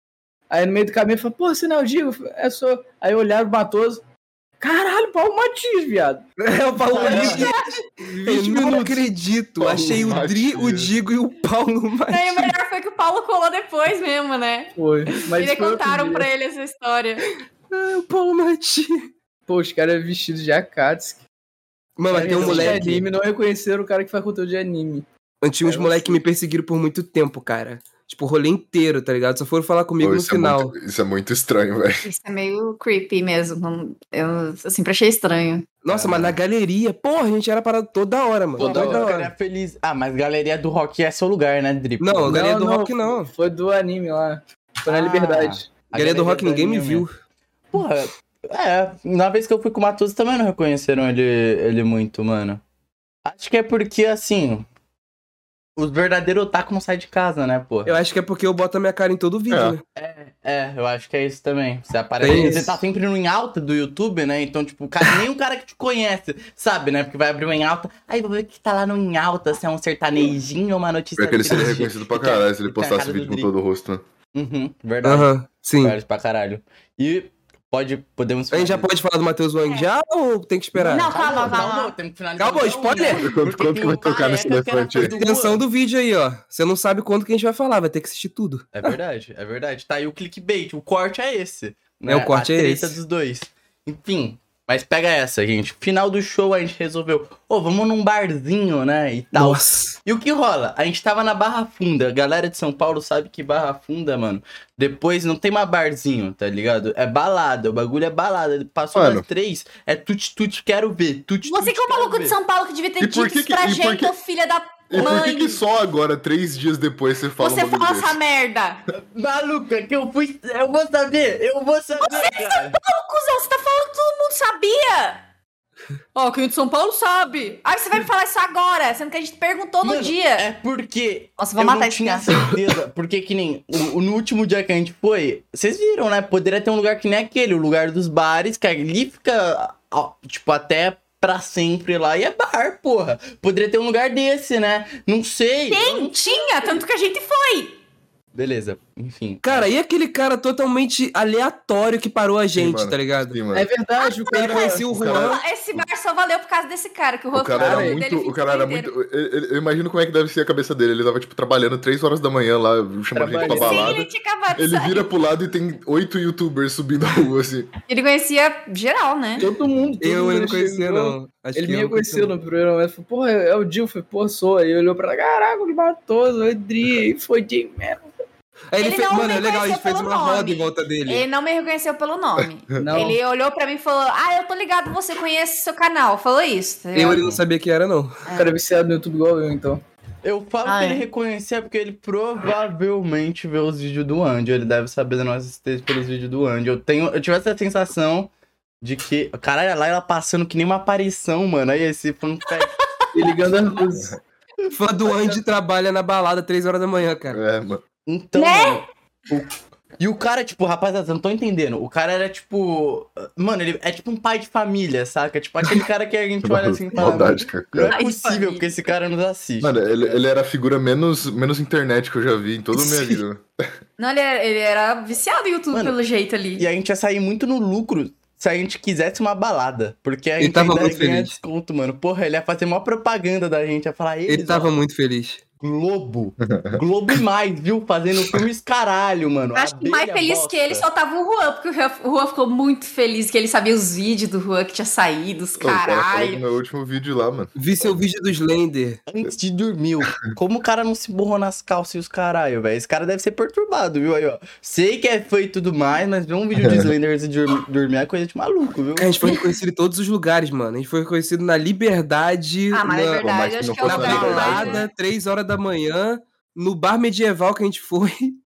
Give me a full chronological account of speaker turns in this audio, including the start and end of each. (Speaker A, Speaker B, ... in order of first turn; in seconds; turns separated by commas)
Speaker A: 0.5-4.0, Speaker A: 4.6-6.3, Speaker B: 6.4-12.5, Speaker A: 6.9-7.5, Speaker C: 7.0-7.6, Speaker D: 7.0-7.3, Speaker D: 8.3-9.0, Speaker E: 9.6-10.9, Speaker C: 12.1-17.3, Speaker A: 14.8-16.3, Speaker B: 17.7-19.0, Speaker A: 19.5-21.2, Speaker B: 22.0-23.1, Speaker A: 22.1-25.1, Speaker B: 25.4-30.7, Speaker A: 25.6-26.2, Speaker E: 30.0-32.0, Speaker C: 32.0-35.7, Speaker B: 35.8-39.3, Speaker D: 35.9-36.3, Speaker A: 38.6-39.1, Speaker D: 38.6-42.4, Speaker B: 42.0-43.3, Speaker A: 42.3-45.7, Speaker D: 44.9-47.0, Speaker B: 46.0-47.2, Speaker D: 47.7-52.6, Speaker D: 53.2-54.7, Speaker D: 55.8-58.0, Speaker B: 57.9-59.8, Speaker E: 59.5-59.8, Speaker D: 60.0-73.5, Speaker B: 62.2-62.8, Speaker A: 62.3-62.6, Speaker E: 71.2-74.0, Speaker D: 74.3-78.9, Speaker B: 75.0-76.0, Speaker B: 78.5-81.5, Speaker C: 80.8-81.9, Speaker D: 81.1-85.6, Speaker B: 82.4-83.3, Speaker E: 83.2-85.2, Speaker B: 85.1-88.9, Speaker D: 88.7-112.4, Speaker B: 92.1-93.0, Speaker B: 99.3-100.0, Speaker E: 108.9-109.2, Speaker C: 111.5-115.6, Speaker E: 113.0-114.1, Speaker E: 114.9-118.2, Speaker D: 115.0-115.3, Speaker C: 117.4-118.8, Speaker D: 119.0-122.8, Speaker C: 122.0-125.2, Speaker C: 126.2-130.5, Speaker D: 129.8-146.2, Speaker C: 131.4-132.5, Speaker C: 145.7-147.8, Speaker D: 148.3-149.7, Speaker B: 149.4-153.4, Speaker E: 152.5-153.7, Speaker A: 153.5-154.9, Speaker C: 154.0-158.9, Speaker B: 154.3-155.4, Speaker E: 154.9-155.8, Speaker E: 157.3-167.7, Speaker A: 157.6-158.0, Speaker A: 163.2-164.1, Speaker C: 163.4-165.1, Speaker C: 167.9-169.5, Speaker A: 169.4-178.1, Speaker B: 170.0-172.3, Speaker B: 178.7-181.2, Speaker C: 178.8-187.2, Speaker E: 182.4-182.8, Speaker A: 182.8-183.2, Speaker B: 186.9-188.2, Speaker D: 187.1-187.4, Speaker C: 188.3-188.5, Speaker A: 188.3-189.8, Speaker D: 190.2-198.3, Speaker C: 190.7-191.0, Speaker D: 198.8-202.8, Speaker A: 203.1-204.2, Speaker B: 204.7-207.4, Speaker D: 205.1-205.4, Speaker E: 207.3-207.8, Speaker D: 208.1-220.2, Speaker C: 208.4-208.8, Speaker E: 216.4-218.0, Speaker C: 217.9-218.7, Speaker E: 219.6-223.4, Speaker C: 224.0-226.7, Speaker D: 226.6-234.7, Speaker B: 230.4-231.4, Speaker B: 234.3-235.4, Speaker D: 235.6-240.9, Speaker E: 236.5-236.8, Speaker C: 239.6-246.4, Speaker E: 245.6-247.5, Speaker B: 247.6-249.0, Speaker D: 249.1-259.3, Speaker E: 256.6-256.9, Speaker B: 259.0-263.2, Speaker C: 262.7-264.9, Speaker E: 263.2-264.8, Speaker B: 263.8-268.4